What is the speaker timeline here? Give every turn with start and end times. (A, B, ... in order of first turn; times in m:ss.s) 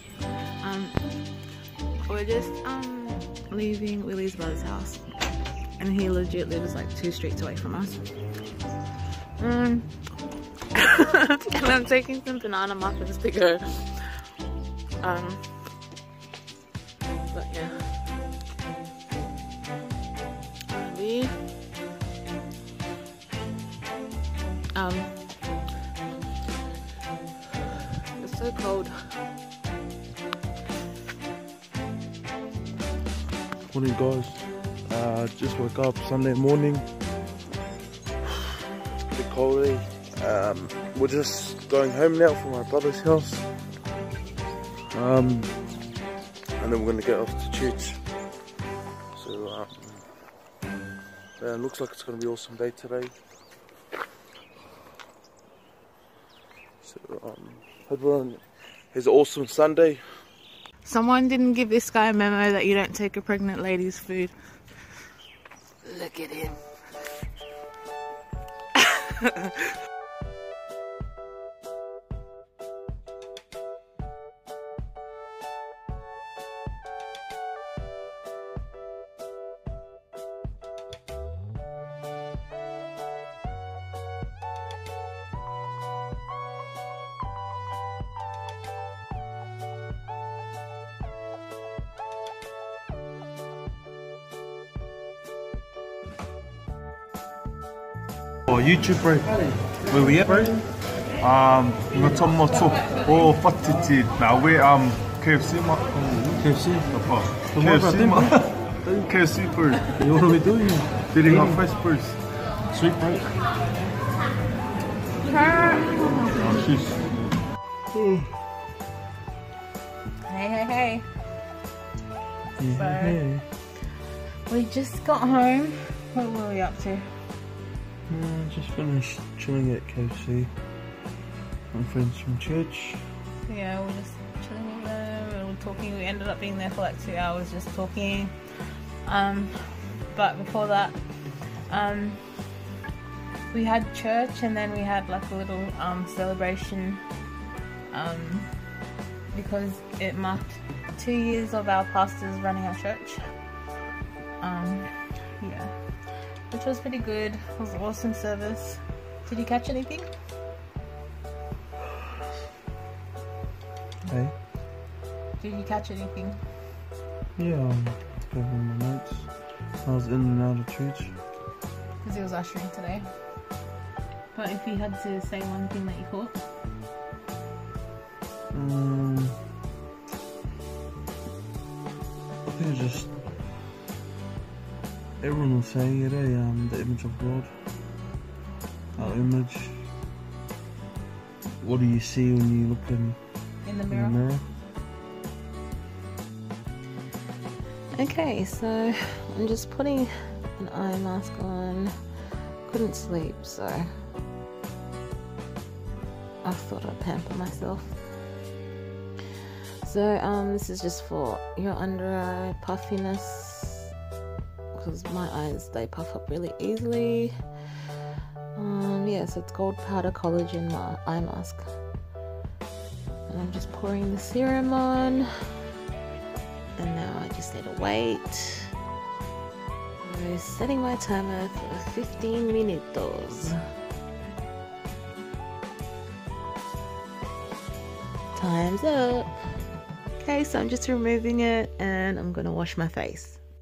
0:00.6-0:01.0 A
0:02.1-0:05.0 A
0:05.8-0:08.1 A
0:09.4-0:09.9 A
0:10.7-0:14.2 A
0:15.0-0:15.4 A
0:17.3-0:18.0 A
0:20.7-0:21.4 A
0:24.7-0:25.3 A
0:28.2-0:29.1 A
0:33.7-0:36.8 B
0:39.1-0:43.4 B
0:44.9-0:45.6 B
0:46.6-0:48.0 B
0:49.2-0:50.1 B
0:51.4-0:53.1 B
0:56.8-1:00.1 B
1:00.8-1:04.4 A
1:05.8-1:06.6 A
1:09.2-1:09.5 A
1:38.5-1:39.4 B
1:39.9-1:40.5 B
1:41.2-1:46.0 C
1:46.0-1:49.1 B
1:46.9-1:49.9 C
1:49.9-1:51.7 B
1:51.1-1:52.2 C
1:52.7-1:53.2 B
1:55.2-1:56.6 A
1:56.4-1:57.0 C
1:57.9-1:58.3 B
2:00.3-2:01.0 A
2:02.6-2:03.4 B
2:02.7-2:03.2 A
2:04.5-2:07.1 A
2:08.1-2:10.5 B
2:11.7-2:13.0 B
2:13.5-2:21.0 A
2:21.7-2:22.2 A
2:23.5-2:27.0 A
2:27.9-2:28.5 A
2:29.3-2:33.2 A
2:34.4-2:40.1 A
2:44.1-2:44.4 B
2:45.4-2:46.4 A
2:47.4-2:51.2 B
2:52.0-2:53.1 A
2:54.3-2:56.4 A
2:58.5-2:59.4 B
3:02.5-3:03.2 B
3:05.2-3:07.6 B
3:09.0-3:09.9 B
3:11.6-3:13.2 B
3:13.6-3:14.2 A
3:13.9-3:14.4 B
3:17.9-3:21.9 A
3:22.6-3:23.9 A
3:26.4-3:28.0 A
3:29.8-3:33.9 A
3:34.7-3:37.3 A
3:38.6-3:41.7 A
3:43.3-3:45.3 A
3:46.8-3:48.7 A
3:50.0-3:53.6 A
3:58.3-3:59.3 A
4:00.2-4:03.4 A